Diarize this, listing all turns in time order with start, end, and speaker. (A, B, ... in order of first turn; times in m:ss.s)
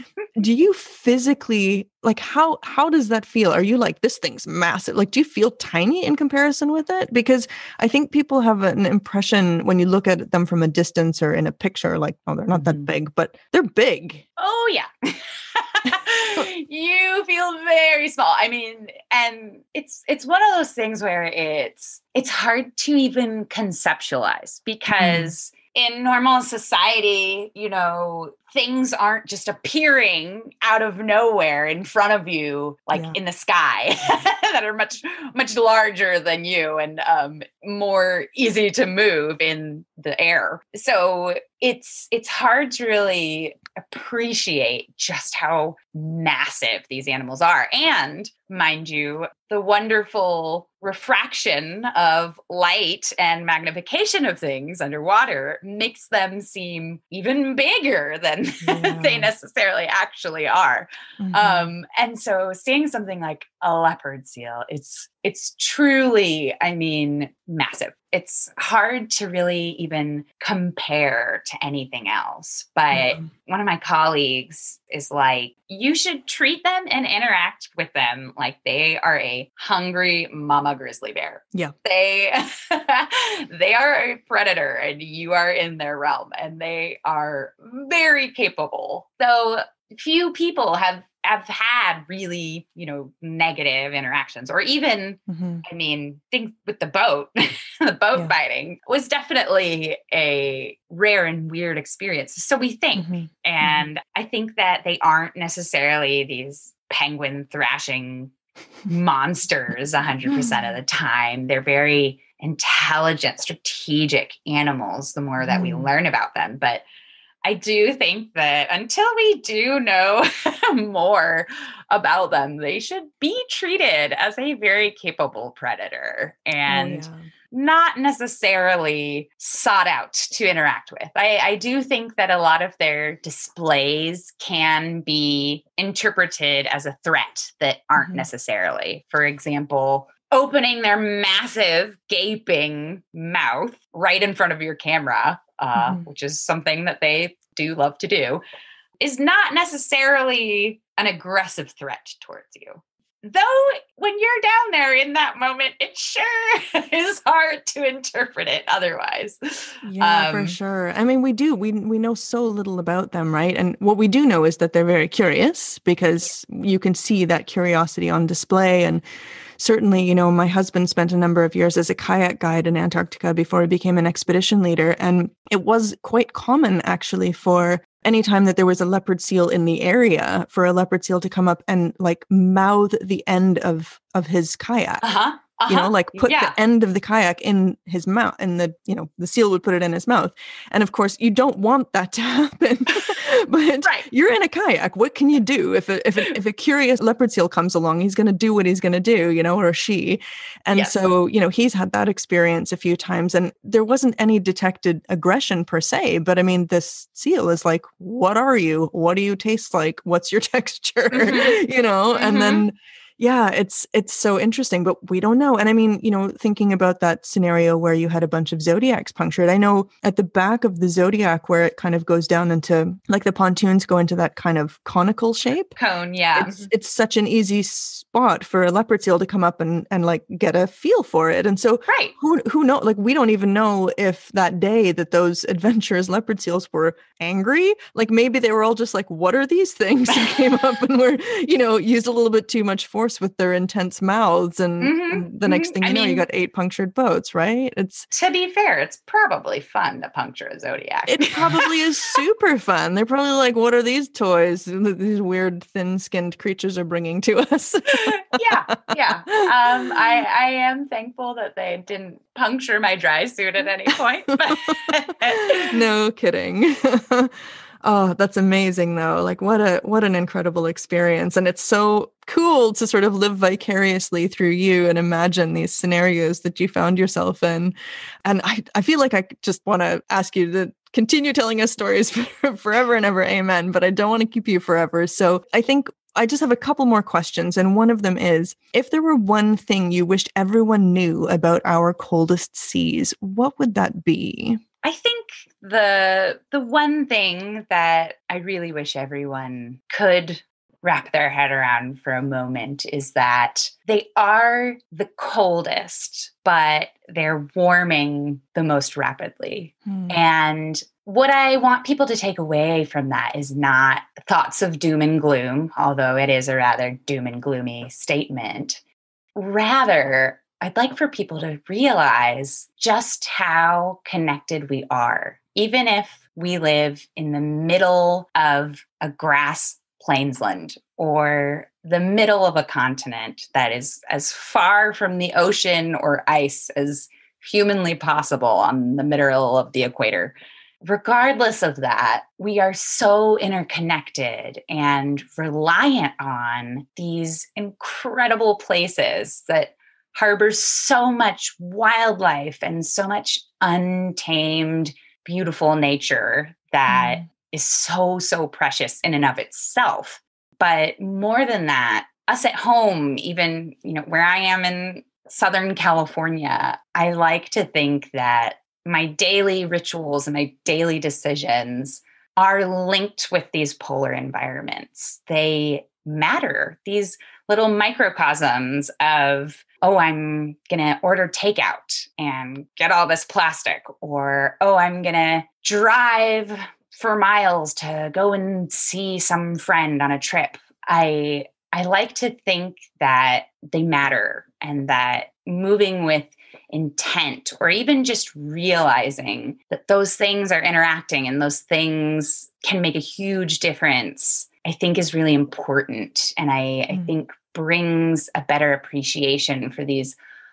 0:00.3-0:14.2 A
0:12.5-0:12.9 B
0:14.4-1:48.3 B
0:25.0-0:25.3 A
0:58.6-0:59.3 A
1:01.2-1:01.7 A
1:12.9-1:13.3 A
1:35.3-1:35.6 A
1:43.0-1:43.9 A
1:48.9-1:56.8 B
1:50.3-1:50.6 A
1:55.4-1:55.9 A
1:57.4-2:28.4 B
2:06.7-2:07.2 A
2:18.0-2:18.3 A
2:25.8-2:26.0 A
2:29.0-2:40.6 B
2:39.8-2:49.0 A
2:49.6-3:05.0 A
3:05.0-3:06.5 B
3:05.7-3:45.7 A
3:13.8-3:14.1 B
3:20.7-3:21.0 B
3:31.1-3:31.6 B
3:32.1-3:32.6 B
3:45.8-3:46.7 B
3:46.4-4:08.1 A
3:51.9-3:52.1 B
4:00.1-4:00.5 B
4:04.8-4:06.2 B
4:08.1-4:12.2 B
4:11.1-4:19.9 A
4:17.9-4:25.8 B
4:25.3-4:37.7 A
4:38.2-4:54.6 A
4:54.8-5:18.8 B
5:09.8-5:10.2 A
5:19.4-6:50.2 B
5:56.9-5:57.2 A